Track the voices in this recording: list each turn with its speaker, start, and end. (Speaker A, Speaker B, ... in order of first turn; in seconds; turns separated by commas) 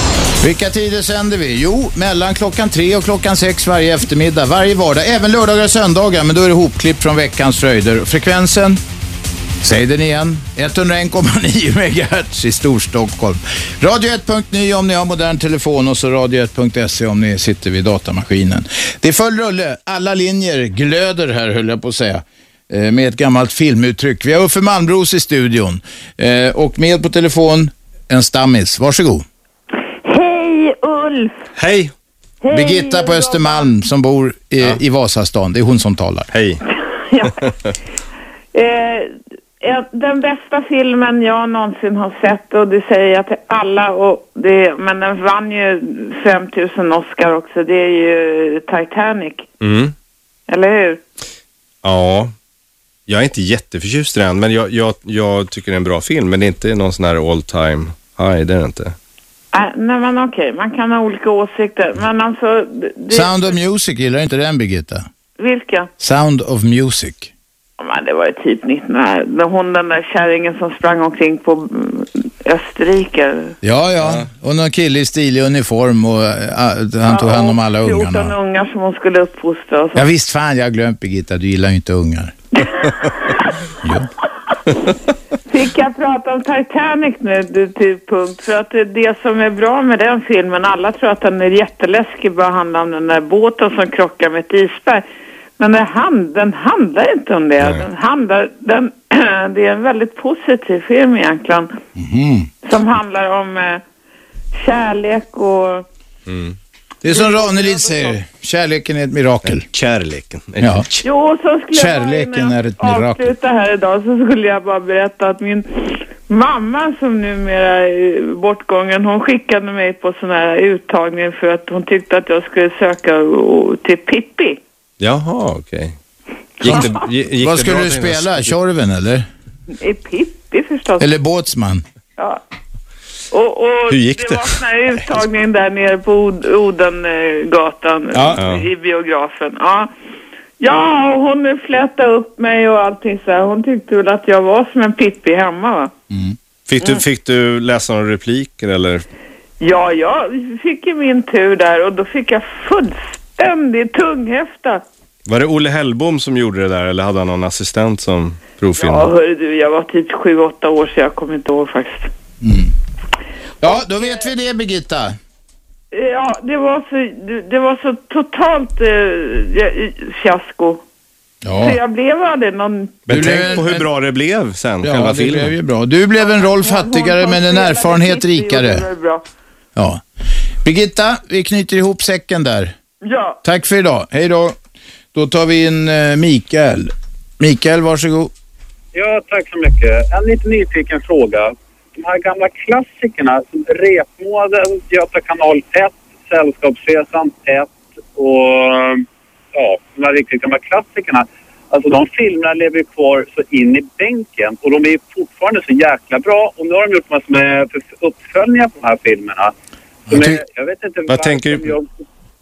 Speaker A: 0.4-8.8, Speaker A: 9.6-29.2, Speaker B: 30.1-31.4, Speaker C: 31.6-31.9, Speaker B: 32.5-33.7, Speaker A: 32.5-36.3, Speaker C: 36.3-36.6, Speaker B: 36.7-37.4, Speaker C: 37.2-37.7, Speaker B: 38.5-49.5, Speaker C: 49.6-49.9, Speaker B: 50.5-51.0, Speaker C: 51.8-52.3, Speaker C: 53.1-59.0, Speaker B: 59.5-63.6, Speaker A: 63.1-65.1, Speaker B: 65.4-65.9, Speaker A: 66.0-67.3, Speaker B: 67.8-73.5, Speaker A: 73.6-78.3, Speaker B: 77.0-80.1, Speaker A: 80.0-82.4, Speaker B: 82.6-83.5, Speaker B: 85.5-95.1, Speaker B: 95.6-101.8, Speaker C: 97.6-97.9, Speaker A: 102.0-102.5, Speaker B: 102.6-103.8, Speaker B: 104.6-105.9, Speaker C: 106.3-106.6, Speaker A: 107.0-109.6, Speaker B: 107.1-108.1, Speaker C: 109.5-111.1, Speaker A: 110.6-110.8, Speaker B: 111.0-124.6, Speaker A: 111.7-113.3, Speaker C: 125.0-126.0, Speaker C: 126.6-128.5, Speaker B: 126.7-127.0, Speaker A: 127.4-129.3, Speaker B: 129.8-131.1, Speaker A: 131.0-131.8, Speaker B: 132.2-132.4, Speaker B: 133.3-139.9, Speaker C: 133.9-134.6, Speaker A: 138.1-138.4, Speaker C: 138.4-138.7, Speaker B: 140.6-145.9, Speaker A: 146.1-146.4, Speaker C: 146.7-149.1, Speaker B: 149.6-154.8, Speaker C: 155.3-159.1, Speaker B: 158.8-162.1, Speaker A: 162.4-162.7, Speaker A: 163.6-165.2, Speaker B: 163.6-164.3, Speaker B: 165.9-170.8, Speaker A: 171.4-171.8, Speaker B: 171.6-173.6, Speaker C: 173.1-175.5, Speaker A: 173.1-173.8, Speaker A: 174.8-178.9, Speaker B: 176.2-179.2, Speaker A: 179.8-180.0, Speaker A: 180.6-182.8, Speaker B: 183.0-183.4, Speaker A: 183.4-184.6, Speaker A: 185.1-188.3, Speaker D: 188.9-209.5, Speaker A: 210.1-210.4, Speaker D: 210.1-211.9, Speaker C: 211.1-211.7